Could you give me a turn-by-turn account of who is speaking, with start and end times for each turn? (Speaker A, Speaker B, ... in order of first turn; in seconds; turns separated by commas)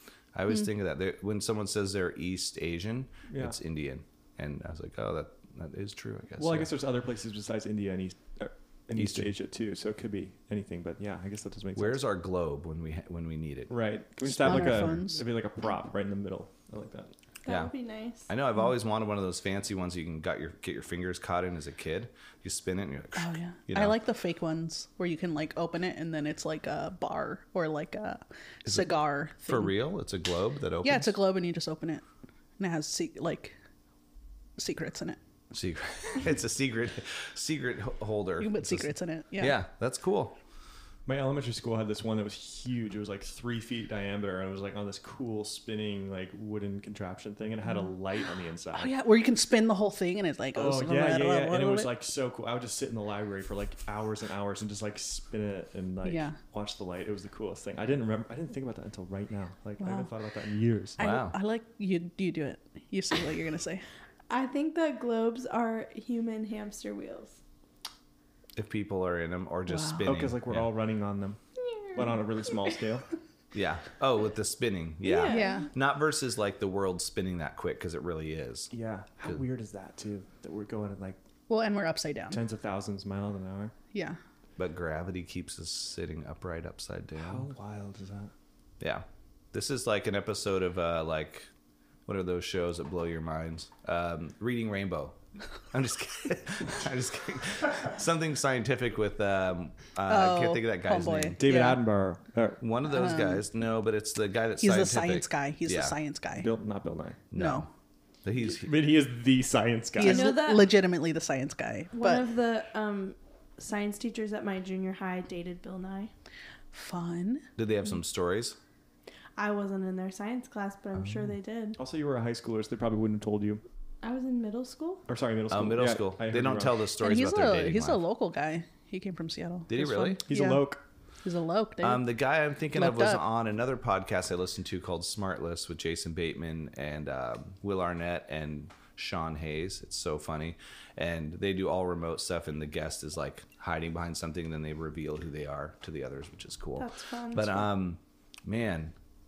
Speaker A: 0.3-6.7, Speaker B: 3.3-3.6, Speaker B: 6.4-12.0, Speaker A: 8.9-9.3, Speaker A: 11.8-13.7, Speaker B: 13.7-17.1, Speaker C: 14.3-15.2, Speaker D: 17.4-18.3, Speaker A: 18.3-24.0, Speaker C: 23.2-29.7, Speaker A: 28.6-31.2, Speaker C: 30.8-32.0, Speaker C: 32.6-33.6, Speaker C: 34.6-35.2, Speaker A: 35.5-40.4, Speaker C: 38.4-39.6, Speaker B: 41.1-48.9, Speaker C: 48.7-51.9, Speaker B: 50.5-61.0, Speaker C: 56.0-56.4, Speaker A: 61.0-61.4, Speaker C: 61.0-63.8, Speaker D: 64.3-67.4, Speaker A: 68.5-70.7, Speaker C: 69.7-70.0, Speaker B: 70.0-71.4, Speaker D: 71.6-72.8, Speaker B: 72.0-73.0, Speaker A: 73.5-78.7, Speaker D: 75.0-75.7, Speaker C: 75.3-75.7, Speaker B: 78.7-81.2, Speaker C: 81.5-82.4, Speaker B: 82.3-83.7, Speaker A: 84.6-87.5, Speaker B: 87.2-88.3, Speaker A: 88.8-91.5, Speaker A: 92.1-95.2, Speaker A: 95.7-101.4, Speaker C: 100.1-101.8, Speaker B: 101.4-102.6, Speaker A: 102.6-106.0, Speaker C: 102.9-103.5, Speaker C: 104.6-106.5, Speaker B: 106.4-107.2, Speaker A: 107.3-107.7, Speaker C: 107.3-107.7, Speaker A: 108.2-108.7, Speaker B: 108.5-110.3, Speaker C: 110.0-112.2, Speaker D: 110.0-110.7, Speaker D: 111.9-116.1, Speaker C: 116.7-117.4, Speaker A: 117.6-118.6, Speaker D: 119.4-121.8, Speaker B: 121.8-123.6, Speaker D: 124.0-125.1, Speaker B: 125.1-126.8, Speaker A: 125.5-128.0, Speaker C: 127.0-130.7, Speaker A: 129.7-130.2, Speaker B: 130.1-130.8, Speaker C: 131.2-132.1, Speaker A: 131.8-148.9, Speaker C: 132.7-133.2, Speaker D: 146.8-147.7